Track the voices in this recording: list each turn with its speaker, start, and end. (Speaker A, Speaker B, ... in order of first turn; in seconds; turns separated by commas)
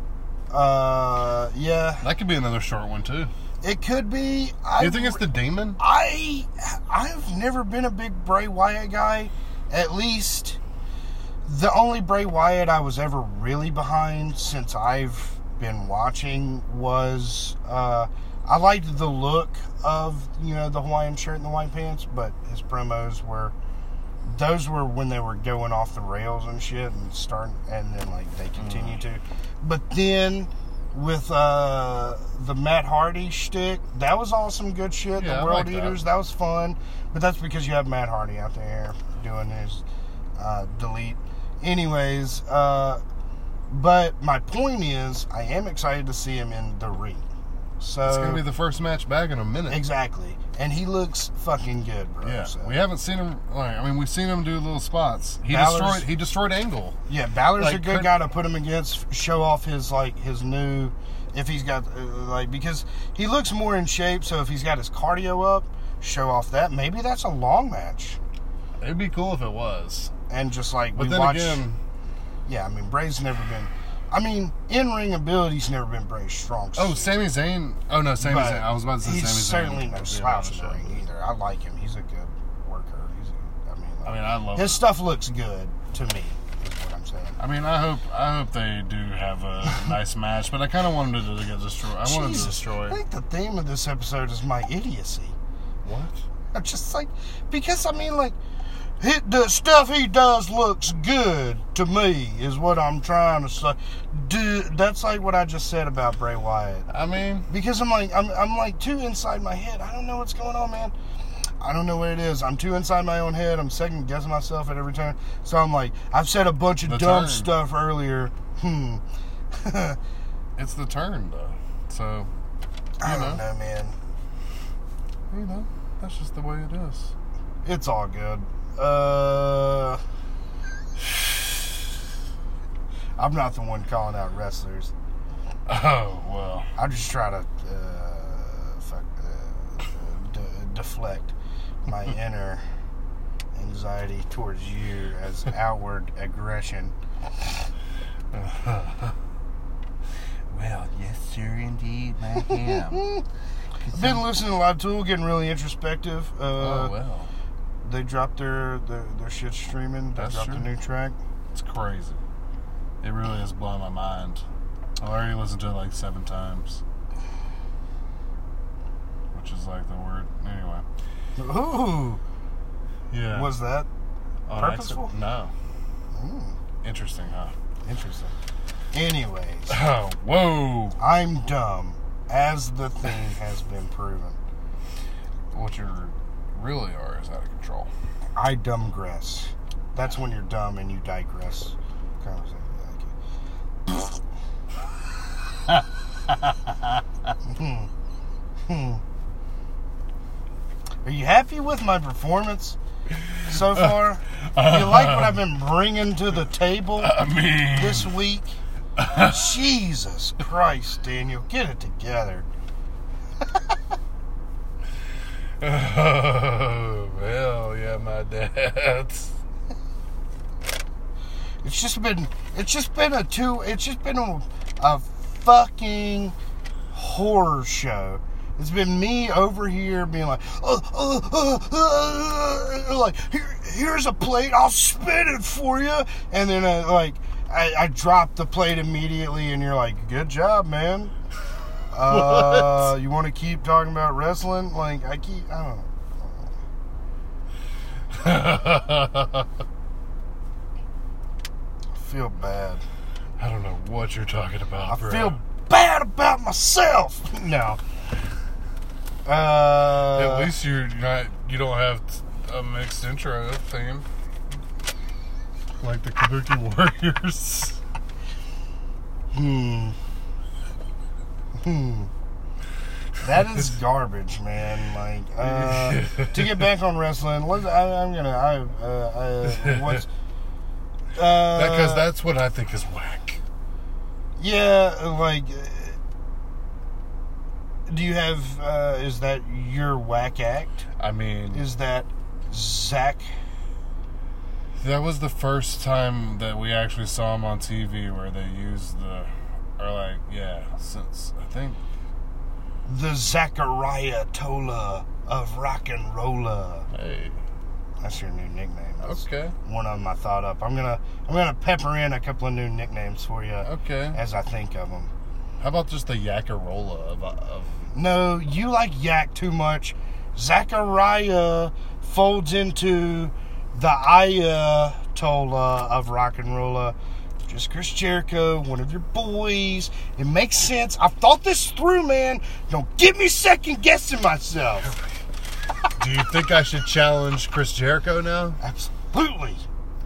Speaker A: 0.5-2.0, Speaker B: 2.0-3.3, Speaker A: 3.6-5.2, Speaker B: 4.8-5.8, Speaker A: 5.8-10.6, Speaker A: 11.5-23.6, Speaker A: 24.2-39.8, Speaker B: 28.6-29.0, Speaker B: 35.1-36.0, Speaker A: 40.4-43.0, Speaker A: 43.7-47.3, Speaker A: 47.8-48.4, Speaker B: 48.0-49.8, Speaker A: 49.7-52.8, Speaker B: 52.2-57.0, Speaker A: 55.5-56.1, Speaker A: 57.1-68.2, Speaker B: 57.6-58.1, Speaker B: 68.8-70.1, Speaker A: 70.3-71.6, Speaker B: 71.0-71.8, Speaker A: 72.5-77.2, Speaker B: 76.8-81.0, Speaker A: 78.2-87.4, Speaker B: 84.0-84.8, Speaker B: 87.4-93.0, Speaker A: 92.0-95.4, Speaker B: 95.8-96.2, Speaker A: 96.5-98.4, Speaker A: 99.0-106.9, Speaker B: 106.9-107.5, Speaker A: 107.5-110.9, Speaker A: 111.6-119.0, Speaker B: 116.8-117.5, Speaker A: 119.5-120.0, Speaker B: 120.6-122.3, Speaker A: 123.0-124.0, Speaker B: 123.0-123.4, Speaker B: 125.3-127.1, Speaker A: 127.6-130.0, Speaker A: 133.2-134.9, Speaker B: 135.7-136.7, Speaker A: 136.8-141.3, Speaker A: 141.9-142.6, Speaker A: 143.6-146.9, Speaker B: 148.3-149.2, Speaker B: 150.5-153.1, Speaker A: 152.5-153.2, Speaker B: 153.9-154.2, Speaker A: 153.9-156.9, Speaker B: 156.6-157.3, Speaker A: 157.8-161.2, Speaker B: 160.2-160.7, Speaker B: 161.5-162.2, Speaker B: 163.0-164.4, Speaker B: 165.0-166.8, Speaker B: 169.3-170.8, Speaker A: 171.4-172.2, Speaker B: 173.1-173.5, Speaker A: 173.3-173.9, Speaker B: 174.5-175.5, Speaker A: 174.5-175.1, Speaker A: 176.1-176.6, Speaker B: 176.8-177.5, Speaker A: 177.8-178.3, Speaker A: 178.9-179.8, Speaker B: 179.7-181.0, Speaker A: 181.0-184.4, Speaker B: 185.5-187.9, Speaker A: 188.4-193.1, Speaker B: 195.7-196.7, Speaker A: 197.5-197.9, Speaker A: 198.7-199.0, Speaker A: 201.1-202.8, Speaker B: 203.2-205.4, Speaker A: 203.4-207.2, Speaker B: 207.0-208.1, Speaker A: 207.7-208.6, Speaker B: 209.0-209.4, Speaker A: 209.1-212.5, Speaker B: 215.6-219.4, Speaker A: 221.6-226.3, Speaker A: 226.9-241.1, Speaker A: 241.9-246.5, Speaker B: 242.1-242.9, Speaker B: 248.1-249.5, Speaker A: 251.9-252.8, Speaker B: 253.4-255.4, Speaker A: 254.9-257.8, Speaker A: 259.2-260.5, Speaker B: 260.1-264.1, Speaker B: 265.8-267.8, Speaker A: 269.3-270.0, Speaker A: 271.6-272.1, Speaker A: 273.2-280.1, Speaker B: 275.4-276.7, Speaker B: 279.5-280.0, Speaker A: 281.1-282.1, Speaker B: 281.5-283.4, Speaker A: 284.4-286.0, Speaker A: 287.9-290.9, Speaker B: 291.0-291.7, Speaker A: 291.5-293.3, Speaker B: 294.8-301.8, Speaker A: 302.9-306.9, Speaker B: 306.9-307.4, Speaker A: 308.0-315.1, Speaker B: 309.0-309.6, Speaker B: 313.6-314.2, Speaker B: 315.6-317.9, Speaker A: 317.9-326.9, Speaker A: 327.5-335.0, Speaker B: 334.9-335.1, Speaker B: 336.0-338.6, Speaker A: 338.6-339.6